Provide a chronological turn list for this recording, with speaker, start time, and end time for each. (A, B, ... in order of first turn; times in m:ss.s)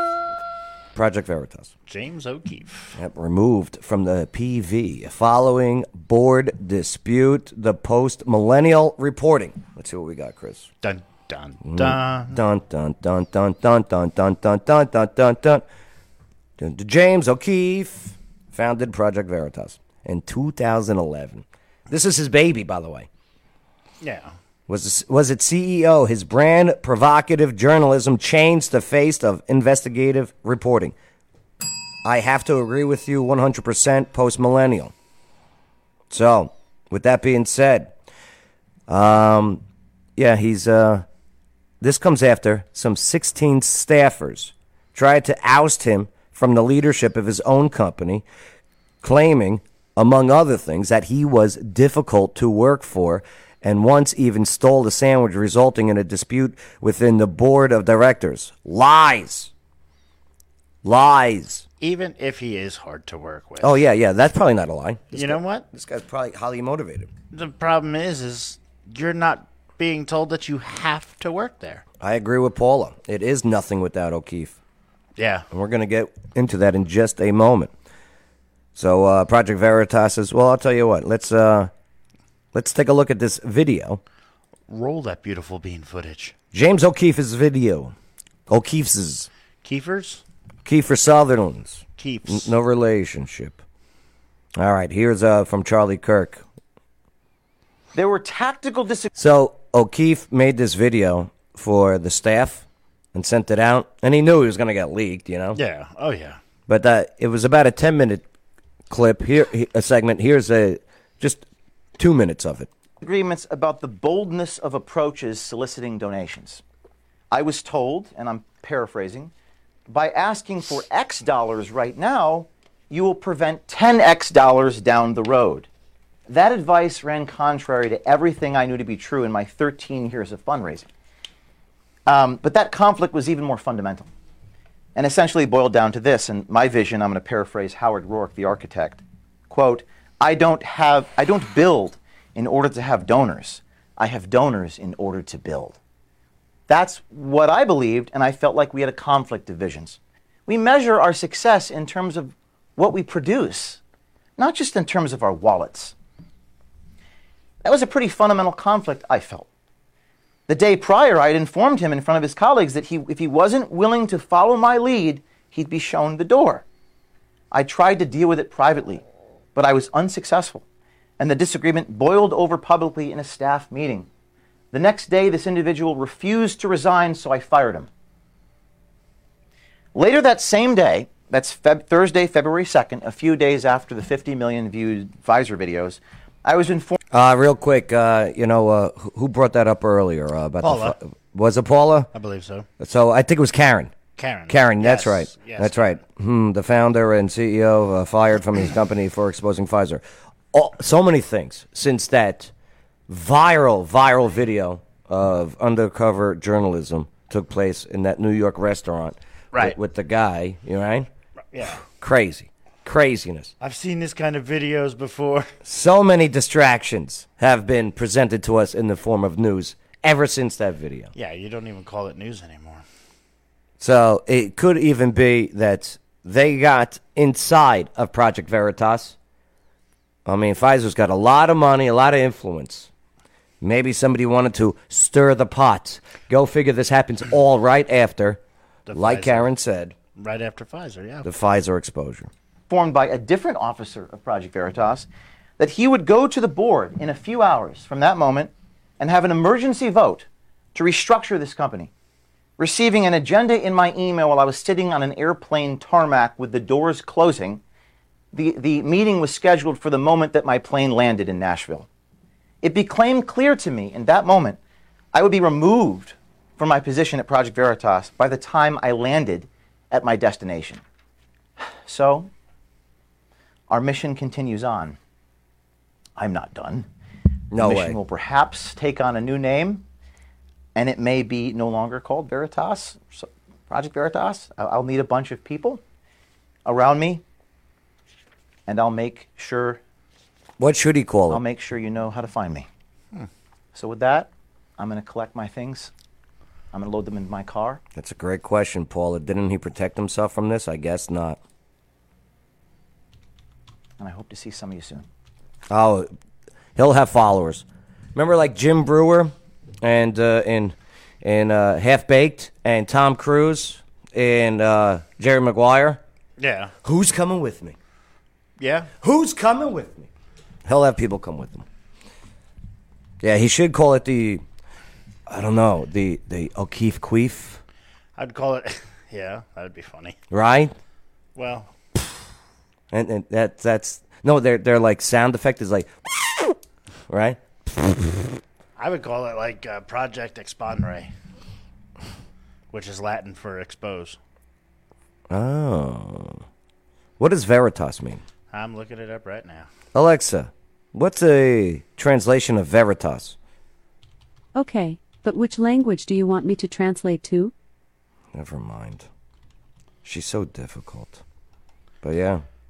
0:00.9-0:01.7 A
0:01.9-0:03.0 B
0:02.9-0:10.7 A
0:10.8-0:12.4 B
0:11.6-0:15.6 A
0:16.6-0:23.1 A
0:24.0-0:24.4 B
0:24.7-0:30.9 A
0:32.0-0:34.9 A
0:36.1-0:37.9 A
0:38.9-0:39.6 A
0:40.2-0:41.0 A
0:41.8-0:48.2 A
0:49.0-0:59.5 A
1:00.8-1:01.6 A
1:01.8-1:03.8 B
1:03.6-1:07.1 A
1:05.1-1:05.6 B
1:07.3-1:11.8 B
1:12.0-1:14.6 A
1:15.2-1:15.5 B
1:15.5-1:17.7 A
1:18.7-1:21.7 A
1:22.5-1:24.0 A
1:24.7-1:26.3 B
1:26.5-1:27.9 A
1:28.5-1:29.3 A
1:29.6-1:30.2 B
1:30.6-1:33.6 A
1:32.0-1:32.5 B
1:34.6-1:36.4 A
1:37.9-1:39.1 C
1:39.1-1:45.6 A
1:45.5-1:46.4 B
1:46.7-1:48.2 A
1:48.9-1:51.4 A
1:52.0-1:52.7 A
1:53.0-1:56.6 C
1:57.3-1:59.3 C
1:59.9-2:05.7 C
2:06.3-2:10.9 C
2:12.1-2:14.1 C
2:14.9-2:25.8 C
2:26.7-2:33.8 C
2:34.4-2:35.9 C
2:37.6-2:39.5 C
2:40.5-2:46.6 C
2:47.5-2:49.0 C
2:49.5-2:50.6 C
2:51.2-2:54.1 C
2:54.7-2:57.9 C
2:59.9-3:07.0 C
3:07.1-3:12.1 A
3:10.6-3:11.0 B
3:12.1-3:12.7 B
3:12.8-3:13.9 A
3:14.2-3:16.0 B
3:14.5-3:22.5 A
3:23.1-3:31.1 A
3:31.5-3:31.8 B
3:31.8-3:33.5 A
3:33.6-3:35.5 B
3:35.6-3:41.1 A
3:41.1-3:42.8 B
3:43.8-3:49.2 A
3:50.2-3:52.9 A
3:53.6-3:58.4 A
3:58.9-3:59.5 B
3:58.9-3:59.9 A
4:00.2-4:01.3 B
4:01.2-4:02.3 A
4:02.7-4:11.9 C
4:12.6-4:17.6 C
4:18.3-4:21.9 C
4:22.6-4:24.6 C
4:25.1-4:30.8 C
4:31.6-4:32.3 C
4:33.7-4:35.0 C
4:36.2-4:36.9 C
4:37.5-4:38.0 A
4:37.6-4:39.8 C
4:40.7-4:45.8 C
4:46.6-4:47.2 C
4:48.7-4:49.8 C
4:50.6-4:51.4 A
4:51.3-4:52.7 C
4:53.7-4:55.9 C
4:56.7-4:57.8 C
4:57.9-5:01.4 A
5:04.0-5:05.0 C
5:05.7-5:06.1 A
5:06.8-5:16.0 A
5:16.4-5:16.7 B
5:16.8-5:17.8 A
5:18.6-5:18.9 B
5:19.0-5:20.1 A
5:20.6-5:21.6 A
5:23.2-5:24.4 A
5:25.3-5:27.6 A
5:28.2-5:30.2 B
5:30.3-5:30.7 A
5:31.4-5:31.7 B
5:32.9-5:36.6 A
5:37.1-5:38.3 A
5:38.8-5:41.1 B
5:42.7-5:44.2 B
5:45.3-5:46.4 A
5:47.2-5:48.2 A
5:48.5-5:49.7 B
5:49.9-5:53.4 A
5:54.5-5:57.5 D
5:58.3-5:59.1 A
6:00.0-6:01.2 A
6:02.0-6:02.4 A